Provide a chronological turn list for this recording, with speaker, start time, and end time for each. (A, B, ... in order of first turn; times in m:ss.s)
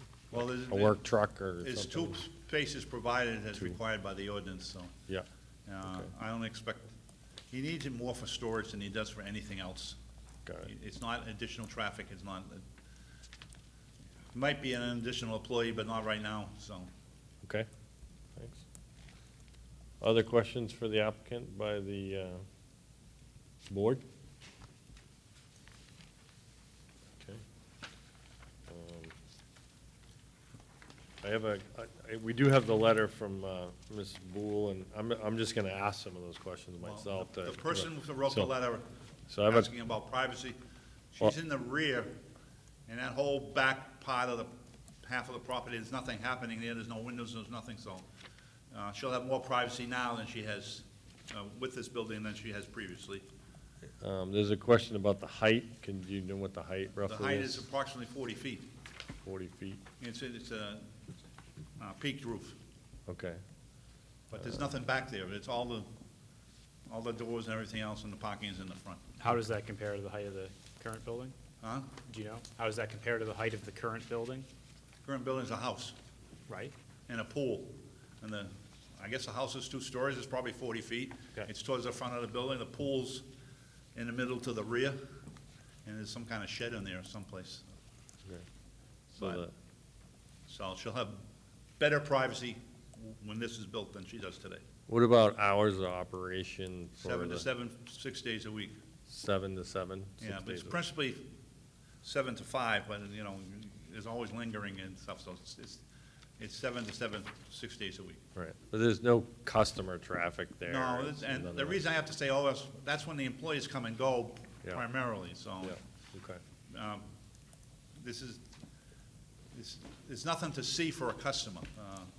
0:00.3-0:01.0 A
0:00.3-0:02.2 B
0:01.6-0:04.9 A
0:05.7-0:06.9 A
0:07.5-0:10.0 A
0:10.6-0:12.6 A
0:14.3-0:16.9 A
0:18.4-0:18.6 B
0:20.0-0:22.4 B
0:23.7-0:24.0 B
0:28.7-0:29.1 B
0:31.2-0:38.5 B
0:36.8-0:38.8 A
0:39.3-0:39.7 B
0:39.4-0:40.6 A
0:41.1-0:42.2 A
0:42.9-0:44.5 A
0:45.0-0:48.0 A
0:48.7-0:53.2 A
0:54.0-0:57.6 B
0:57.0-0:58.7 A
0:59.2-0:59.8 B
1:00.0-1:00.9 A
1:01.8-1:02.6 A
1:03.1-1:03.4 B
1:04.3-1:05.9 A
1:06.9-1:09.0 A
1:09.2-1:11.3 C
1:11.6-1:11.9 A
1:12.0-1:14.5 C
1:15.0-1:15.9 A
1:16.5-1:16.7 C
1:17.1-1:23.2 A
1:23.9-1:25.0 A
1:25.8-1:27.6 A
1:29.1-1:29.5 B
1:29.2-1:29.4 A
1:30.5-1:31.2 A
1:31.8-1:34.6 A
1:34.9-1:37.5 B
1:37.0-1:38.8 A
1:39.1-1:40.8 B
1:40.2-1:41.3 A
1:42.0-1:45.8 A
1:46.4-1:48.2 A
1:48.4-1:51.8 B
1:50.7-1:55.8 A
1:55.6-1:56.4 B
1:56.7-1:57.1 A
1:58.0-1:58.4 A
1:59.5-2:02.1 A